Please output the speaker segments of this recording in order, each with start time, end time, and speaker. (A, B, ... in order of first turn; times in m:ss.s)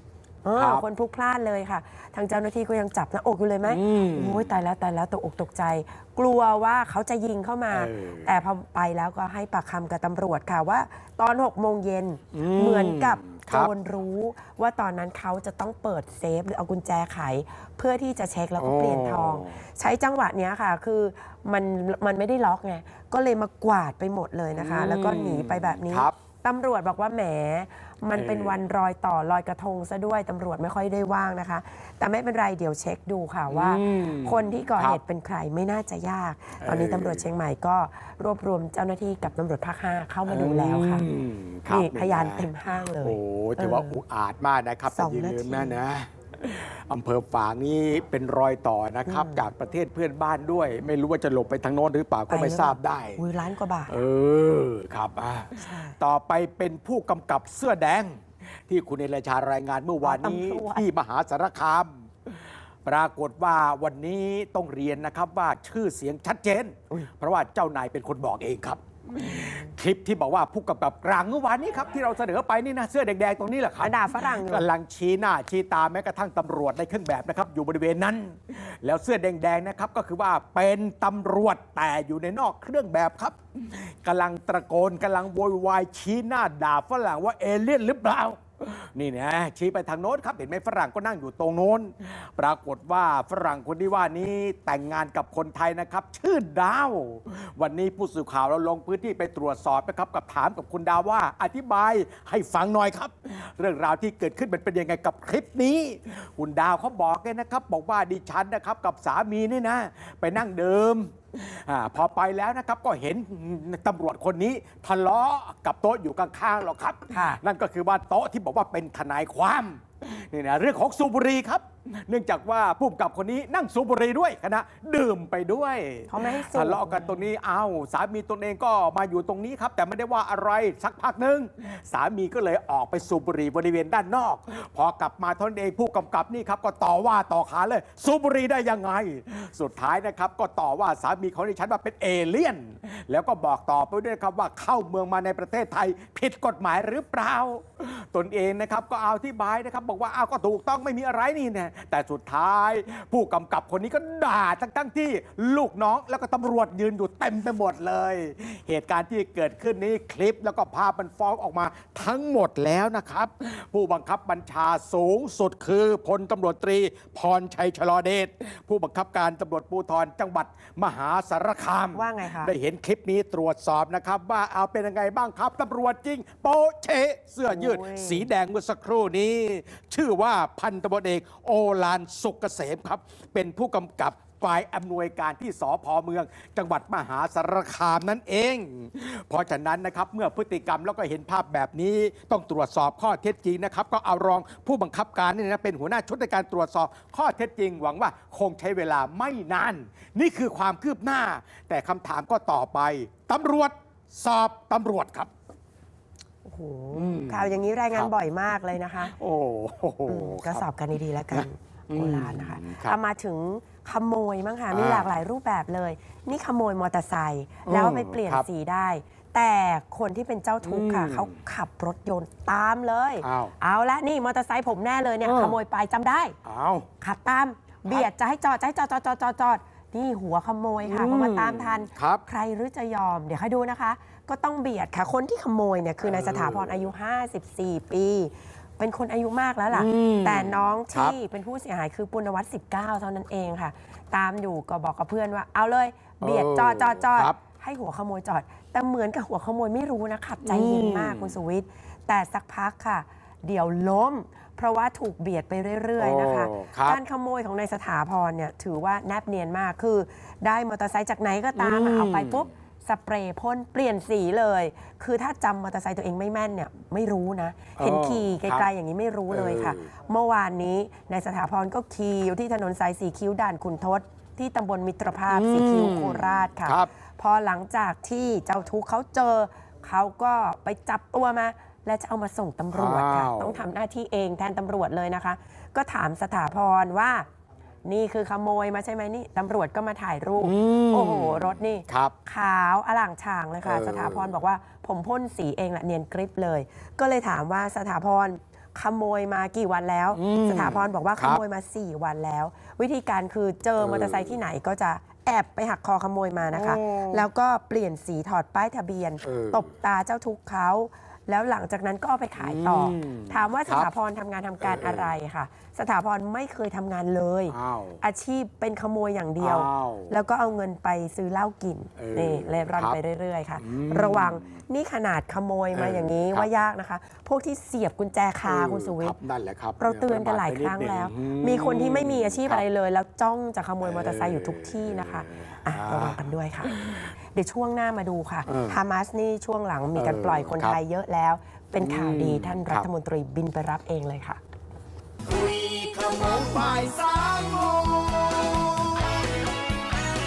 0:00.4-0:41.1 A
0:00.6-0:00.8 B
0:03.6-0:04.4 B
0:07.7-0:08.3 B
0:12.3-0:13.7 B
0:18.6-0:19.6 B
0:24.5-0:26.1 B
0:28.1-0:28.6 B
0:33.5-0:35.0 B
0:36.6-0:37.3 B
0:40.3-0:53.2 B
0:41.7-0:44.0 A
0:44.9-0:45.8 A
0:49.1-0:49.4 A
0:52.3-0:54.0 A
0:53.9-3:25.3 B
0:55.6-0:56.0 A
1:00.0-1:00.9 A
1:09.1-1:09.7 A
1:13.8-1:14.7 A
1:57.1-1:57.4 A
2:06.1-2:07.2 A
2:51.9-2:52.5 A
2:57.5-2:58.3 A
3:26.4-3:29.1 A
3:26.9-3:28.1 B
3:29.0-3:30.6 B
3:30.1-3:46.4 A
3:31.3-3:33.0 B
3:34.7-3:35.1 B
3:37.6-3:38.4 B
3:40.6-3:41.3 B
3:43.2-3:43.5 B
3:45.2-3:45.6 B
3:46.4-3:46.9 B
3:47.0-4:47.2 A
3:50.8-3:52.2 B
3:56.0-3:56.9 B
3:59.7-4:01.1 B
4:06.2-4:07.4 B
4:10.4-4:11.3 B
4:16.0-4:17.0 B
4:21.6-4:22.5 B
4:27.8-4:28.7 B
4:29.3-4:29.9 B
4:35.3-4:36.9 B
4:42.7-4:43.6 B
4:47.8-5:29.2 A
4:50.4-4:52.1 B
4:53.6-4:54.4 B
5:00.1-5:01.4 B
5:03.8-5:04.4 B
5:06.5-5:07.2 B
5:09.2-5:09.7 B
5:12.4-5:13.9 B
5:14.6-5:15.1 B
5:17.5-5:18.0 B
5:19.4-5:20.2 B
5:22.0-5:23.0 B
5:23.6-5:24.5 B
5:25.7-5:26.5 B
5:28.4-5:32.6 B
5:29.8-5:44.4 A
5:33.8-5:37.1 B
5:38.4-5:38.8 B
5:39.9-5:40.8 B
5:41.8-5:42.9 B
5:45.2-5:49.5 C